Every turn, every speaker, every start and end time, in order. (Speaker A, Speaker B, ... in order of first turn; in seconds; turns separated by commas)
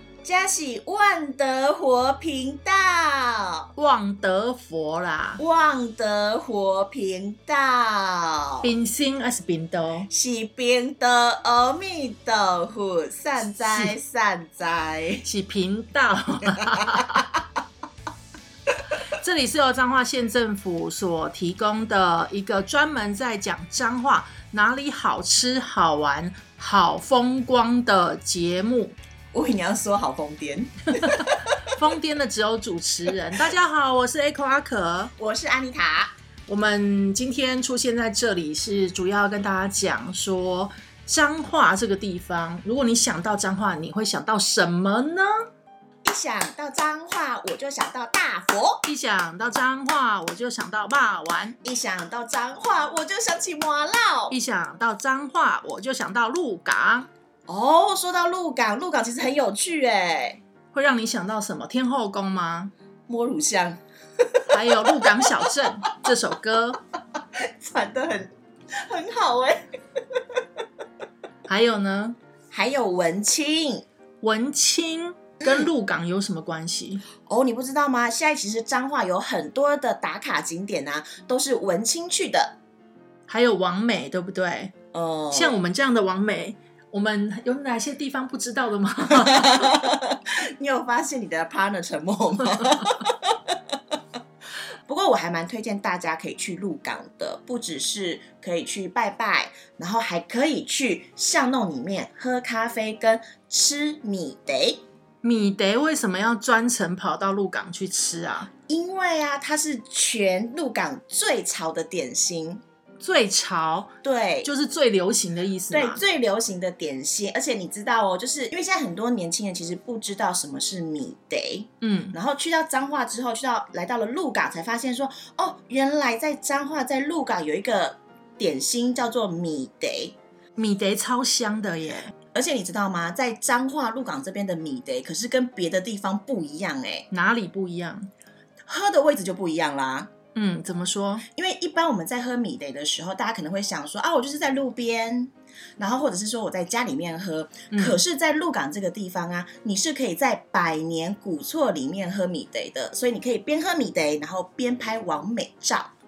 Speaker A: 0.2-3.7, Speaker B: 3.8-5.4, Speaker A: 5.4-8.7, Speaker B: 8.6-10.1, Speaker A: 10.1-15.2, Speaker B: 13.5-13.9, Speaker B: 15.2-17.2, Speaker B: 19.1-28.9, Speaker A: 29.3-31.4, Speaker B: 31.1-35.1, Speaker A: 35.2-36.1, Speaker B: 36.5-45.3, Speaker A: 46.0-48.8, Speaker B: 48.8-51.6, Speaker A: 51.6-54.4, Speaker B: 54.3-57.1, Speaker A: 57.5-60.4, Speaker B: 60.7-62.7, Speaker A: 63.1-63.8, Speaker A: 64.3-65.3, Speaker B: 64.5-66.8, Speaker A: 67.4-69.6, Speaker B: 71.5-72.2, Speaker A: 72.5-73.8, Speaker B: 74.2-77.0, Speaker A: 75.4-75.7, Speaker A: 77.2-82.5, Speaker B: 83.3-84.7, Speaker A: 84.9-85.6, Speaker B: 85.3-89.8, Speaker A: 89.2-93.5, Speaker A: 94.9-104.8, Speaker B: 105.2-108.5, Speaker A: 108.7-112.6, Speaker B: 113.0-113.9, Speaker A: 114.0-114.5, Speaker B: 114.4-116.0, Speaker A: 115.7-130.2, Speaker B: 121.8-122.2, Speaker B: 130.6-132.1, Speaker A: 132.3-137.1, Speaker B: 137.1-138.1, Speaker A: 138.7-140.1, Speaker B: 140.3-141.2, Speaker A: 141.3-155.9, Speaker B: 147.7-148.0